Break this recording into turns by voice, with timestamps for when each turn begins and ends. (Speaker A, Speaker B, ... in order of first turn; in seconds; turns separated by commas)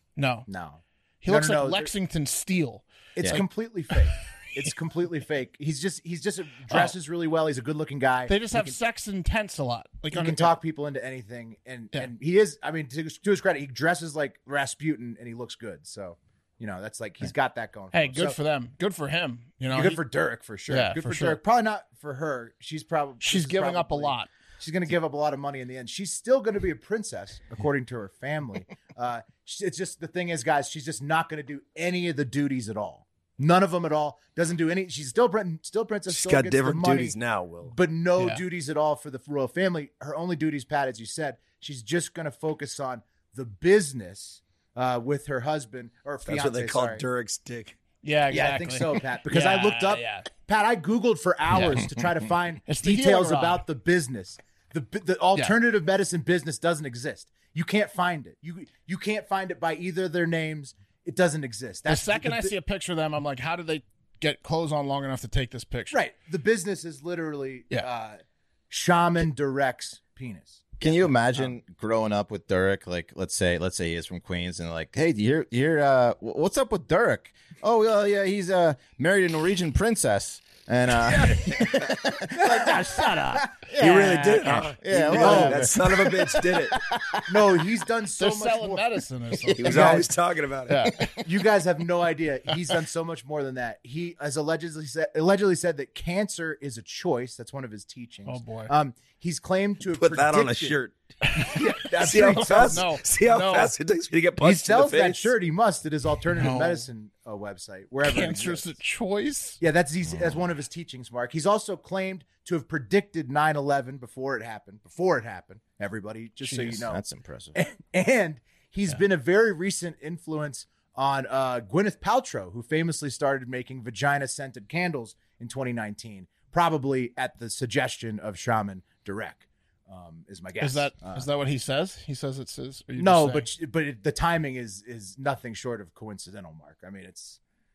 Speaker A: 0.2-0.5, Speaker B: 0.5-1.9, Speaker A: 1.2-3.9, Speaker B: 3.1-8.8, Speaker A: 6.7-6.9, Speaker A: 8.3-10.6, Speaker B: 10.1-18.4, Speaker A: 17.9-20.0, Speaker B: 19.7-47.0, Speaker A: 20.7-21.4, Speaker A: 23.2-24.3, Speaker C: 36.1-37.8, Speaker A: 38.2-38.4, Speaker C: 46.2-47.8, Speaker A: 48.0-50.3, Speaker B: 48.3-62.5, Speaker A: 51.5-51.8, Speaker A: 52.7-53.6, Speaker A: 61.9-66.0, Speaker B: 65.9-71.5, Speaker D: 70.8-87.5, Speaker B: 81.2-81.7, Speaker B: 82.3-82.9, Speaker C: 83.8-86.8, Speaker A: 83.8-85.4, Speaker B: 85.1-85.7, Speaker B: 87.2-89.0, Speaker A: 88.2-90.0, Speaker D: 89.4-90.0, Speaker C: 89.6-91.1, Speaker B: 89.6-90.1, Speaker A: 90.7-91.3, Speaker B: 91.1-100.8, Speaker A: 98.2-98.7, Speaker C: 99.9-105.3, Speaker A: 101.2-101.6, Speaker B: 101.4-102.9, Speaker A: 102.1-103.7, Speaker B: 104.4-108.7, Speaker A: 106.3-106.8, Speaker A: 108.0-109.6, Speaker B: 109.6-117.0, Speaker D: 110.0-110.4, Speaker A: 116.4-116.8, Speaker D: 116.8-117.6, Speaker B: 117.5-131.3, Speaker A: 130.6-133.5, Speaker B: 133.0-137.4